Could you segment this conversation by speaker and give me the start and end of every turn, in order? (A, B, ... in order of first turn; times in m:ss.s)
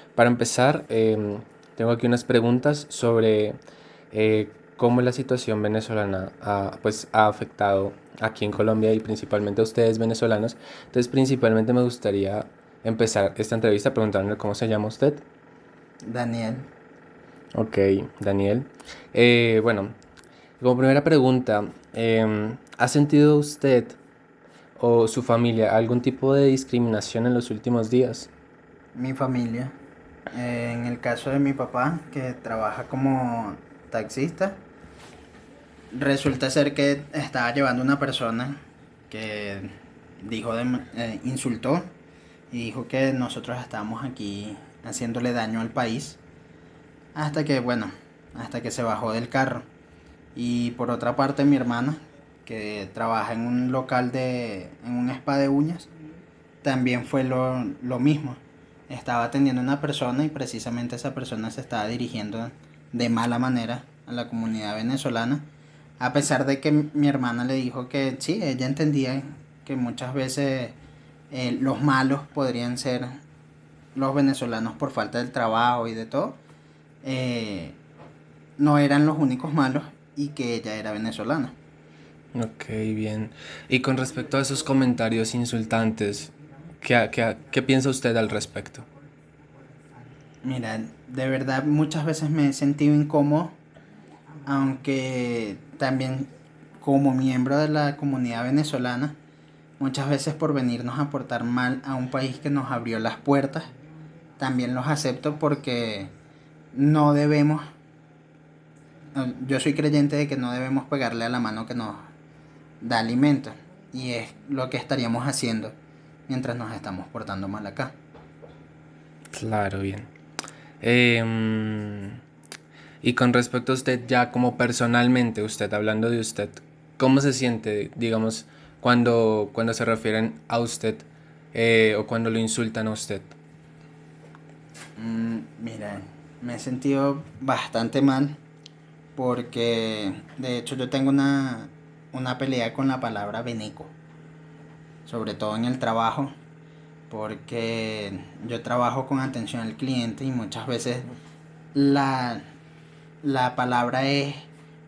0:00.2-0:03.6 A
0:04.1-0:15.2 A
0:16.0-0:16.7 B
0:17.6-0:19.9 A
0:20.6-0:24.0 A
0:24.8-0:28.3 A
0:28.9-0:29.7 B
0:30.3-0:34.6 B
0:35.9-0:39.7 B
0:40.2-0:41.8 B
0:42.5-0:46.2 B
0:47.1-0:49.6 B
0:50.3-0:55.9 B
0:56.6-1:05.4 B
1:06.0-1:10.8 B
1:11.3-1:13.2 B
1:14.0-1:16.4 B
1:17.0-1:17.8 B
1:18.6-1:21.5 B
1:22.3-1:28.8 A
1:30.4-1:33.6 B
1:34.4-1:36.3 B
1:36.8-1:39.2 B
1:39.8-1:43.7 B
1:44.4-1:46.1 B
1:46.7-1:47.6 B
1:49.1-1:52.1 B
1:52.8-1:55.8 B
1:56.3-1:58.0 B
1:59.3-2:00.1 A
2:00.8-2:02.2 A
2:03.0-2:13.4 A
2:15.0-2:18.4 B
2:19.2-2:23.9 B
2:25.1-2:26.3 B
2:27.1-2:31.1 B
2:31.7-2:32.4 B
2:33.2-2:34.5 B